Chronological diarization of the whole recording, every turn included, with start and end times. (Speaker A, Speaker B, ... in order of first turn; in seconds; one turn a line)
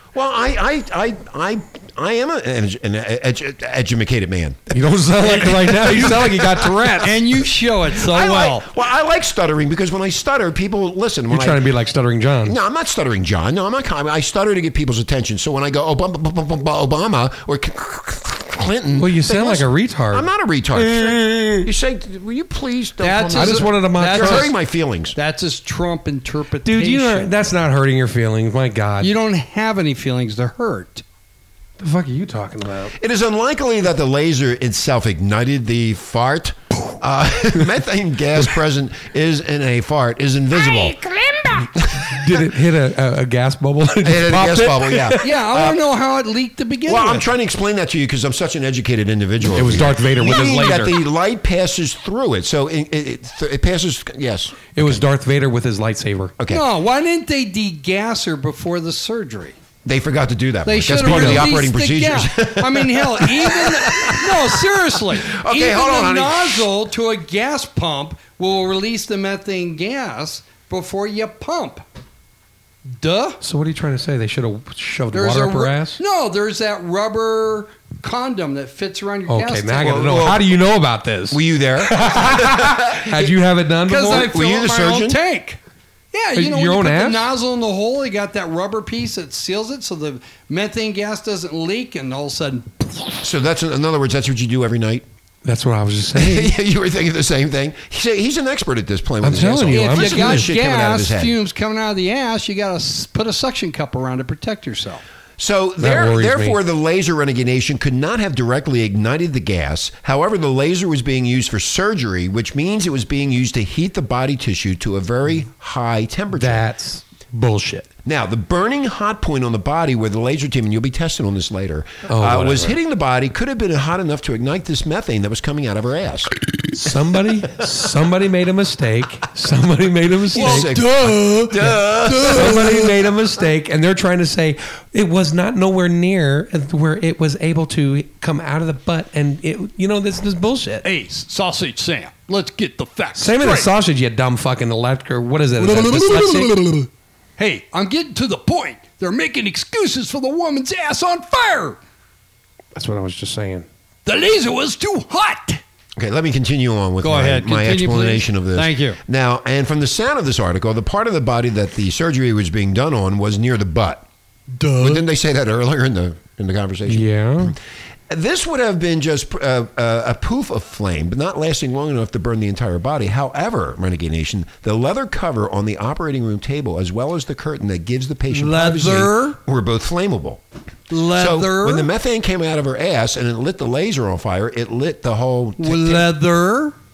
Speaker A: 0.1-6.9
Speaker B: 4.7-7.1
Speaker C: 7.0-8.7
Speaker A: 8.0-11.6
Speaker B: 11.3-12.6
Speaker A: 12.4-25.2
Speaker B: 19.0-21.7
Speaker C: 23.0-24.6
Speaker B: 23.3-24.5
Speaker C: 25.1-27.3
Speaker B: 26.6-29.1
Speaker C: 29.0-31.0
Speaker B: 31.8-32.9
Speaker A: 33.0-41.0
Speaker C: 40.8-41.5
Speaker A: 41.8-42.4
Speaker B: 42.0-45.3
Speaker A: 44.0-45.8
Speaker C: 45.2-47.3
Speaker A: 46.9-55.0
Speaker B: 49.5-51.0
Speaker B: 54.7-56.3
Speaker A: 56.4-56.6
Speaker C: 56.5-59.5
Speaker A: 59.8-66.7
Speaker C: 60.6-71.8
Speaker B: 61.0-61.5
Speaker C: 73.0-73.4
Speaker B: 73.4-76.0
Speaker C: 75.1-80.2
Speaker B: 79.3-84.3
Speaker A: 79.8-80.5
Speaker A: 81.3-83.3
Speaker C: 83.9-85.6
Speaker A: 84.1-85.2
Speaker C: 86.1-93.2
Speaker B: 86.3-87.2
Speaker A: 93.2-95.0
Speaker B: 95.4-96.5
Speaker A: 96.1-101.3
Speaker B: 99.2-100.5
Speaker C: 99.7-105.0
Speaker A: 105.4-116.6
Speaker B: 105.8-106.6
Speaker B: 116.3-117.9
Speaker A: 118.0-126.3
Speaker B: 122.1-122.8
Speaker B: 126.7-130.8
Speaker A: 130.3-132.9
Speaker C: 130.3-132.9
Speaker B: 132.2-140.8
Speaker C: 140.8-143.7
Speaker B: 143.2-146.6
Speaker C: 145.6-146.9
Speaker C: 147.4-151.8
Speaker B: 152.7-153.7
Speaker C: 154.1-155.6
Speaker A: 156.0-164.1
Speaker C: 157.0-159.0
Speaker C: 164.5-165.0
Speaker A: 164.8-167.6
Speaker B: 166.9-167.6
Speaker A: 168.1-180.4
Speaker C: 178.3-179.4
Speaker C: 180.9-181.9
Speaker A: 181.1-186.1
Speaker C: 185.6-186.7